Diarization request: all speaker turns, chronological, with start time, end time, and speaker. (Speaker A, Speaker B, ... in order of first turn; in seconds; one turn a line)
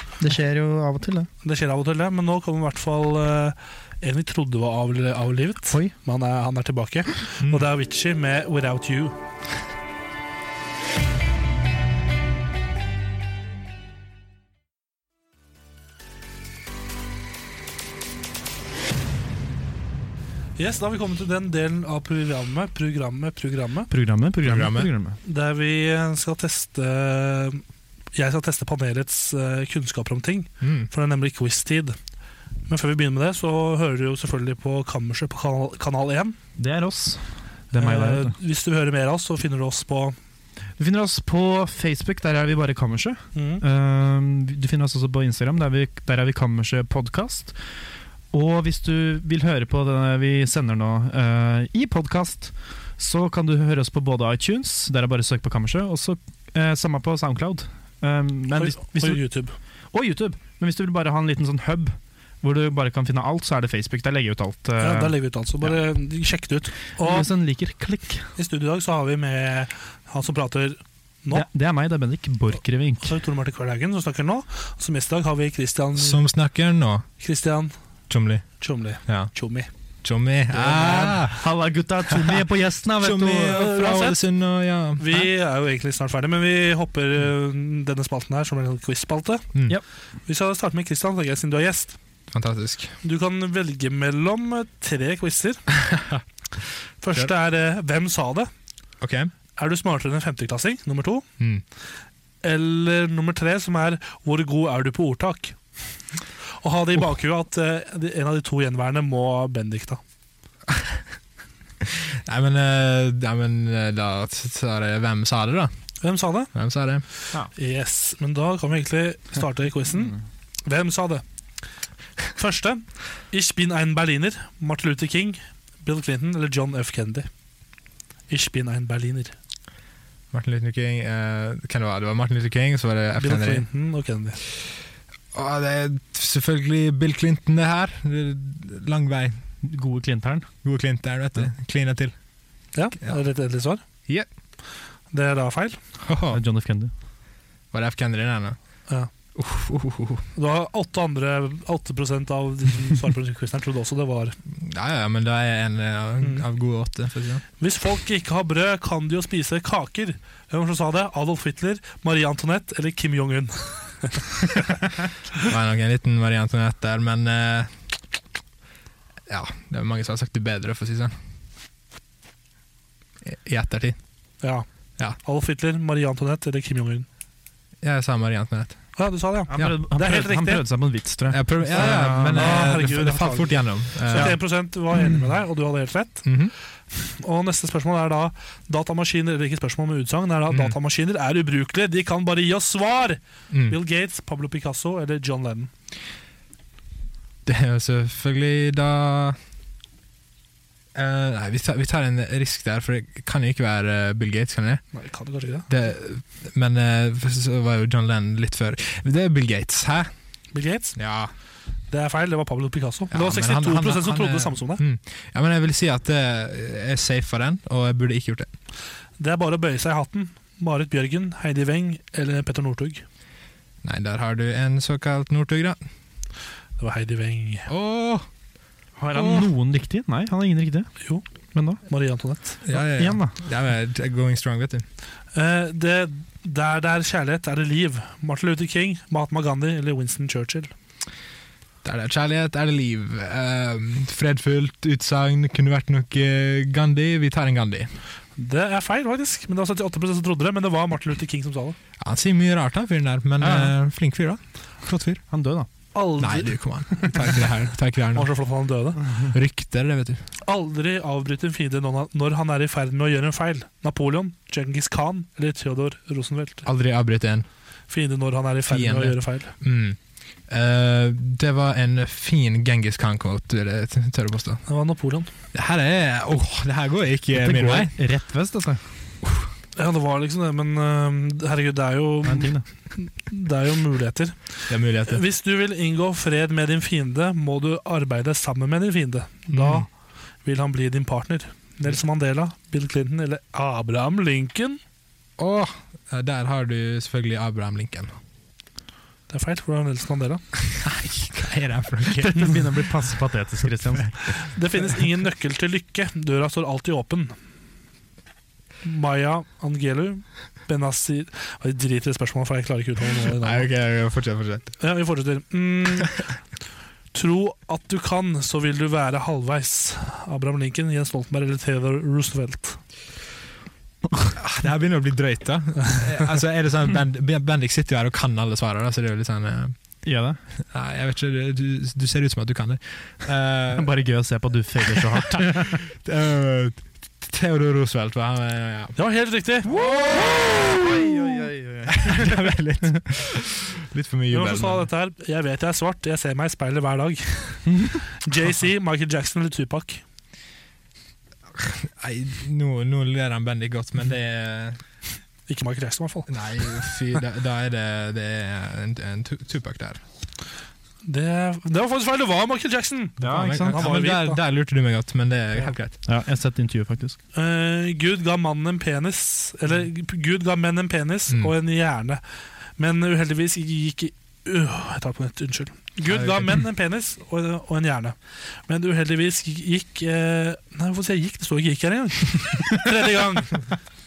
Speaker A: 0.2-1.3
Speaker B: 1.4-9.2
Speaker B: 20.6-23.9
Speaker A: 23.9-25.2
Speaker C: 24.4-24.9
Speaker B: 25.2-27.6
Speaker B: 28.1-32.0
Speaker C: 30.6-30.9
Speaker B: 32.7-36.4
Speaker A: 36.6-38.3
Speaker B: 37.8-40.1
Speaker A: 40.8-47.6
Speaker B: 43.3-43.6
Speaker A: 48.3-59.3
Speaker B: 58.5-59.5
Speaker A: 59.9-65.8
Speaker B: 64.8-67.3
Speaker A: 67.0-68.3
Speaker B: 68.4-71.5
Speaker A: 71.3-73.1
Speaker B: 73.0-76.2
Speaker C: 75.9-77.1
Speaker B: 77.2-77.7
Speaker C: 78.1-79.3
Speaker B: 78.6-79.7
Speaker C: 80.0-81.4
Speaker B: 80.5-81.2
Speaker A: 81.3-83.6
Speaker C: 82.0-82.4
Speaker C: 83.0-85.1
Speaker B: 83.4-84.2
Speaker B: 85.0-89.5
Speaker B: 90.3-92.0
Speaker C: 92.3-93.0
Speaker B: 93.0-95.6
Speaker C: 95.8-96.2
Speaker B: 97.0-98.5
Speaker C: 99.0-99.3
Speaker B: 99.6-101.3
Speaker B: 102.4-105.8
Speaker B: 106.6-110.0
Speaker C: 110.7-111.0
Speaker C: 111.8-117.0
Speaker B: 116.0-116.5
Speaker B: 117.5-121.2
Speaker B: 122.3-127.3
Speaker B: 128.3-129.3
Speaker C: 130.3-133.7
Speaker B: 133.2-134.4
Speaker C: 135.3-139.4
Speaker A: 139.6-140.5
Speaker C: 140.6-142.1
Speaker B: 142.7-143.8
Speaker B: 145.1-145.8
Speaker C: 146.0-146.4
Speaker A: 146.3-146.9
Speaker C: 147.7-148.6
Speaker C: 149.3-150.2
Speaker B: 150.3-154.3
Speaker C: 154.5-157.4
Speaker B: 157.6-164.6
Speaker C: 165.4-167.9
Speaker C: 169.3-171.1
Speaker C: 173.2-174.0
Speaker B: 174.4-177.1
Speaker C: 177.8-179.8
Speaker B: 178.9-180.7
Speaker A: 179.5-182.7
Speaker C: 181.3-184.4
Speaker B: 181.7-186.4
Speaker A: 184.1-184.4
Speaker A: 184.9-185.2
Speaker C: 186.2-186.5
Speaker B: 186.9-195.7
Speaker C: 190.5-190.8
Speaker C: 193.5-193.8
Speaker C: 197.4-199.4
Speaker C: 200.9-204.8
Speaker B: 204.9-205.7
Speaker C: 205.7-210.1
Speaker B: 210.5-211.0
Speaker C: 210.9-211.3
Speaker B: 211.9-214.8
Speaker C: 213.1-218.5
Speaker B: 219.2-223.0
Speaker C: 223.8-225.8
Speaker B: 226.8-227.7
Speaker C: 227.7-228.2
Speaker A: 229.0-230.9
Speaker C: 229.1-229.5
Speaker B: 231.0-232.6
Speaker A: 231.5-231.8
Speaker C: 232.6-234.8
Speaker A: 233.0-233.3
Speaker B: 235.3-240.7
Speaker C: 241.8-247.9
Speaker B: 248.3-251.8
Speaker C: 252.0-255.2
Speaker A: 253.4-253.7
Speaker A: 255.3-255.7
Speaker B: 255.9-256.7
Speaker C: 256.2-260.2
Speaker B: 258.1-259.0
Speaker B: 260.4-266.6
Speaker C: 266.6-267.4
Speaker B: 267.9-269.5
Speaker C: 268.7-274.6
Speaker B: 274.6-275.3
Speaker C: 275.5-277.9
Speaker A: 277.3-278.9
Speaker B: 279.7-289.9
Speaker A: 282.2-282.6
Speaker C: 284.7-285.2
Speaker C: 289.5-289.9
Speaker B: 290.4-294.8
Speaker C: 295.4-298.1
Speaker B: 299.3-300.4
Speaker C: 300.8-302.6
Speaker A: 302.2-304.4
Speaker B: 304.4-307.4
Speaker B: 308.8-313.7
Speaker C: 313.4-314.8
Speaker B: 314.8-316.3
Speaker B: 317.1-322.8
Speaker C: 324.3-329.7
Speaker A: 330.0-330.4
Speaker C: 330.7-334.0
Speaker A: 333.8-335.8
Speaker C: 334.9-338.9
Speaker B: 338.9-339.7
Speaker A: 339.7-343.0
Speaker C: 339.7-341.2
Speaker C: 341.9-344.9
Speaker B: 344.3-350.0
Speaker C: 351.6-354.8
Speaker B: 355.5-356.8
Speaker C: 356.3-360.0
Speaker B: 361.0-364.4
Speaker A: 363.2-363.8
Speaker C: 363.3-366.0
Speaker A: 366.0-367.2
Speaker B: 367.3-372.2
Speaker C: 371.3-371.5
Speaker B: 372.8-383.7
Speaker C: 376.1-376.4